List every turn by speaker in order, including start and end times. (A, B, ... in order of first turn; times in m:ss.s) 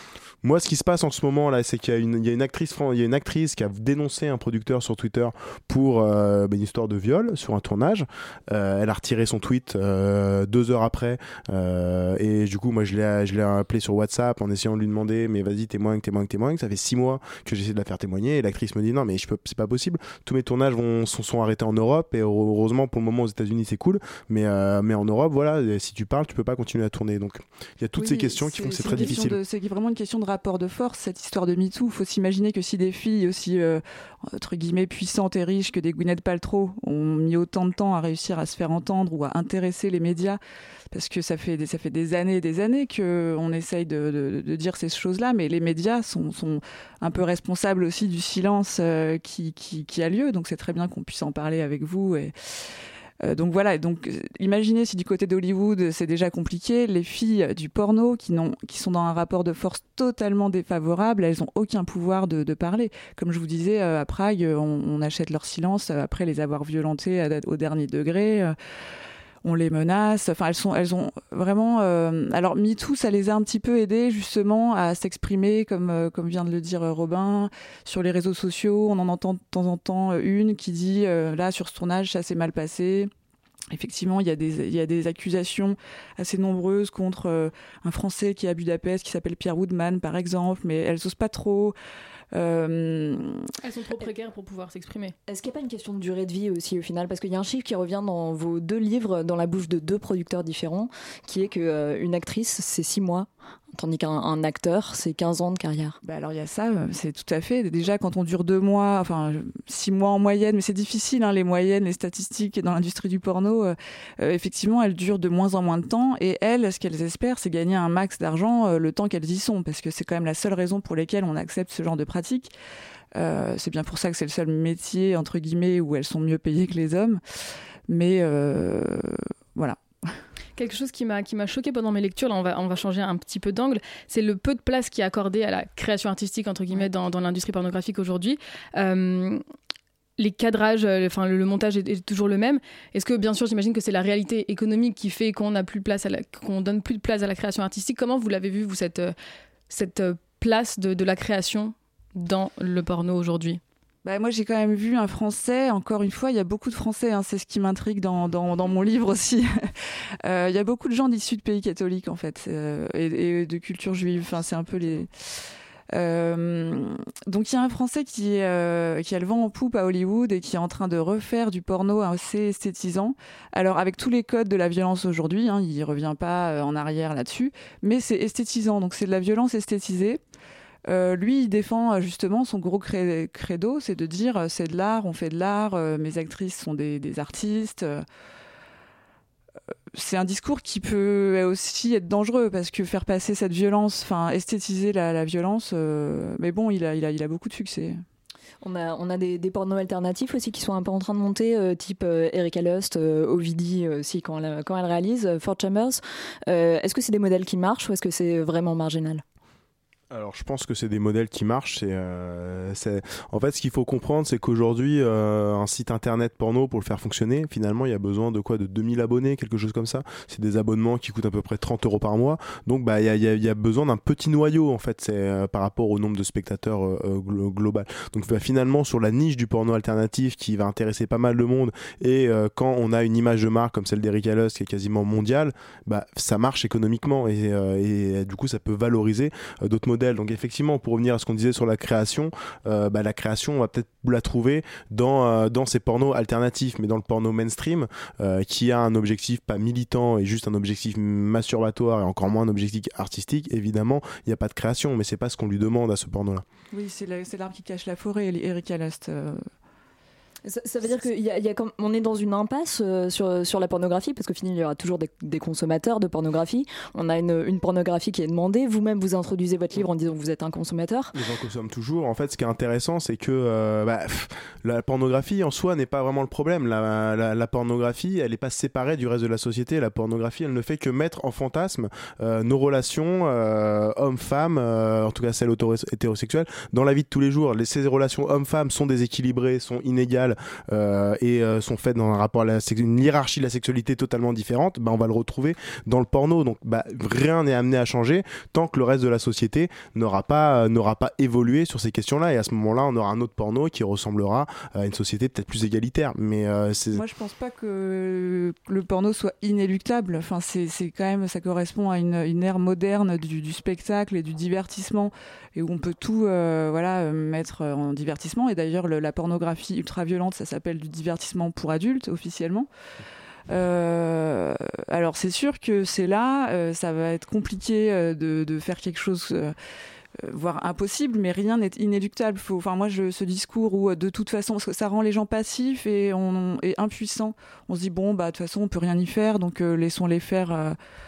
0:00.4-0:29.4 A
0:28.0-0:40.4 B
0:40.9-0:52.3 B
0:53.2-1:08.5 B
1:09.4-1:23.1 B
1:23.7-1:31.7 B
1:32.3-1:33.4 B
1:33.6-1:35.2 C
1:35.3-1:46.0 D
1:46.0-2:02.5 B
2:03.2-2:07.2 B
2:07.9-2:10.1 B
2:10.6-2:19.4 C
2:20.2-2:29.1 C
2:29.7-2:33.6 C
2:34.0-2:39.5 B
2:40.2-2:45.1 B
2:45.9-3:00.2 B
3:00.9-3:08.0 B
3:09.9-3:18.0 B
3:18.6-3:29.2 D
3:30.1-4:16.4 A
4:16.7-4:19.4 B
4:20.4-4:31.1 D
4:31.1-5:07.0 A
5:06.9-5:22.7 B
5:23.5-5:29.5 B
5:30.2-5:40.8 B